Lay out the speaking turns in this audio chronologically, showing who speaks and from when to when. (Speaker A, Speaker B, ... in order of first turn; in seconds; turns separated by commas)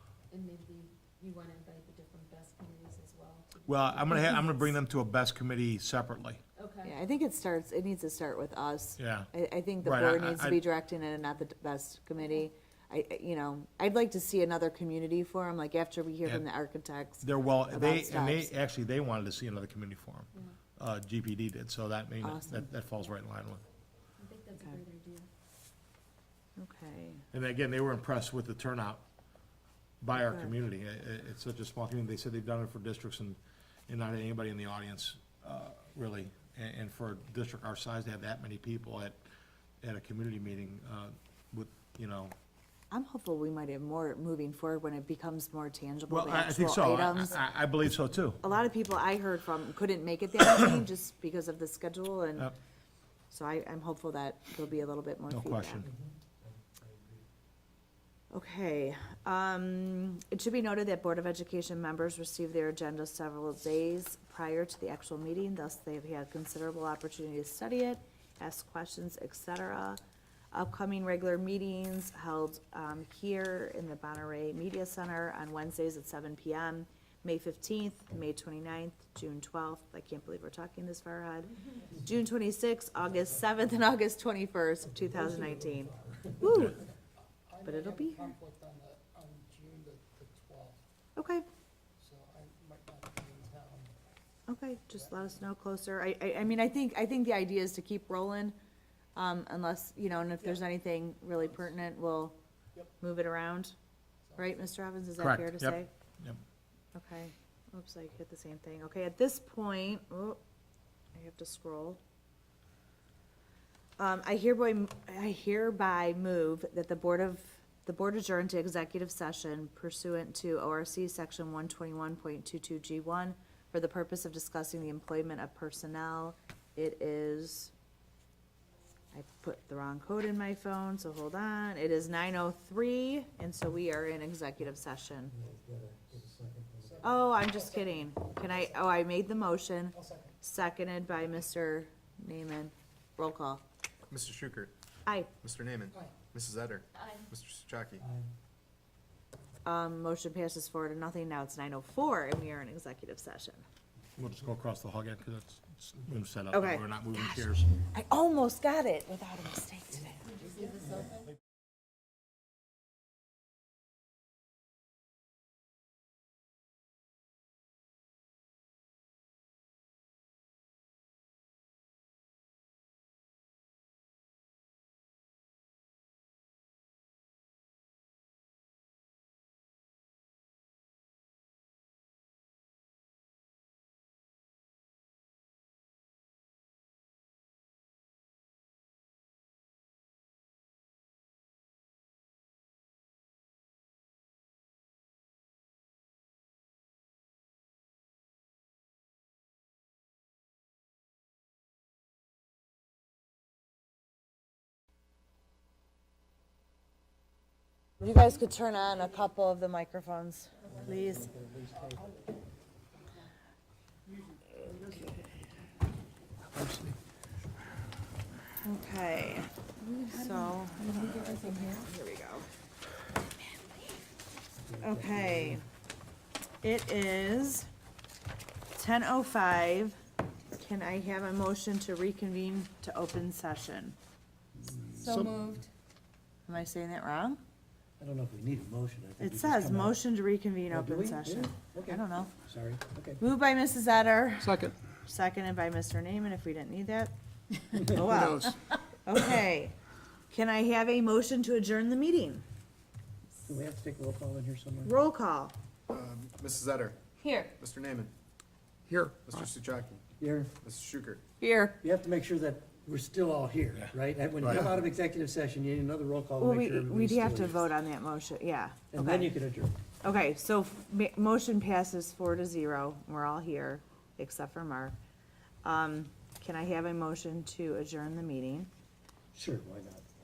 Speaker A: 0.3-4.6, Speaker B: 3.7-6.4, Speaker A: 6.6-6.9, Speaker C: 6.8-18.5, Speaker B: 9.0-9.3, Speaker B: 9.8-10.6, Speaker B: 17.2-23.6, Speaker C: 22.2-22.7, Speaker A: 24.2-25.3, Speaker C: 26.6-27.2, Speaker B: 27.3-29.0, Speaker B: 30.0-39.2, Speaker B: 39.8-42.4, Speaker C: 42.9-47.4, Speaker B: 46.1-48.4, Speaker C: 48.4-52.5, Speaker C: 53.3-55.9, Speaker B: 55.3-55.9, Speaker C: 58.3-70.0, Speaker C: 70.5-86.8, Speaker D: 87.5-90.8, Speaker C: 87.7-88.3, Speaker C: 91.2-91.5, Speaker D: 92.0-94.0, Speaker C: 94.5-98.6, Speaker C: 99.2-102.4, Speaker C: 103.0-103.7, Speaker C: 104.4-105.9, Speaker B: 105.2-106.4, Speaker C: 107.0-110.4, Speaker C: 111.2-112.0, Speaker C: 114.0-127.7, Speaker C: 129.1-135.3, Speaker E: 135.3-137.1, Speaker D: 136.9-137.9, Speaker C: 137.0-143.6, Speaker D: 140.0-140.3, Speaker F: 144.1-144.7, Speaker C: 145.1-145.3, Speaker F: 145.4-148.0, Speaker E: 148.0-148.3, Speaker C: 149.6-153.6, Speaker B: 154.2-157.7, Speaker C: 156.5-160.3, Speaker A: 160.3-161.2, Speaker C: 208.0-211.4, Speaker E: 216.5-216.9, Speaker C: 218.6-222.5, Speaker A: 219.8-221.9, Speaker C: 223.4-223.8, Speaker E: 224.6-225.6, Speaker C: 224.8-225.7, Speaker C: 226.6-227.7, Speaker C: 228.8-230.0, Speaker C: 230.6-234.0, Speaker E: 234.6-235.6, Speaker A: 235.0-235.7, Speaker C: 236.5-237.4, Speaker E: 238.0-240.0, Speaker C: 239.2-242.3, Speaker E: 240.7-243.2, Speaker C: 243.2-249.7, Speaker E: 247.8-248.2, Speaker C: 250.3-252.4, Speaker E: 253.5-254.9, Speaker C: 254.9-255.6, Speaker F: 255.9-258.1, Speaker C: 257.2-257.5, Speaker F: 259.1-261.2, Speaker E: 260.2-260.5, Speaker C: 261.4-261.8, Speaker E: 261.8-267.7, Speaker F: 264.4-264.7, Speaker C: 266.4-269.3, Speaker E: 268.9-269.7, Speaker C: 270.0-274.9, Speaker C: 275.6-278.7, Speaker E: 279.3-280.0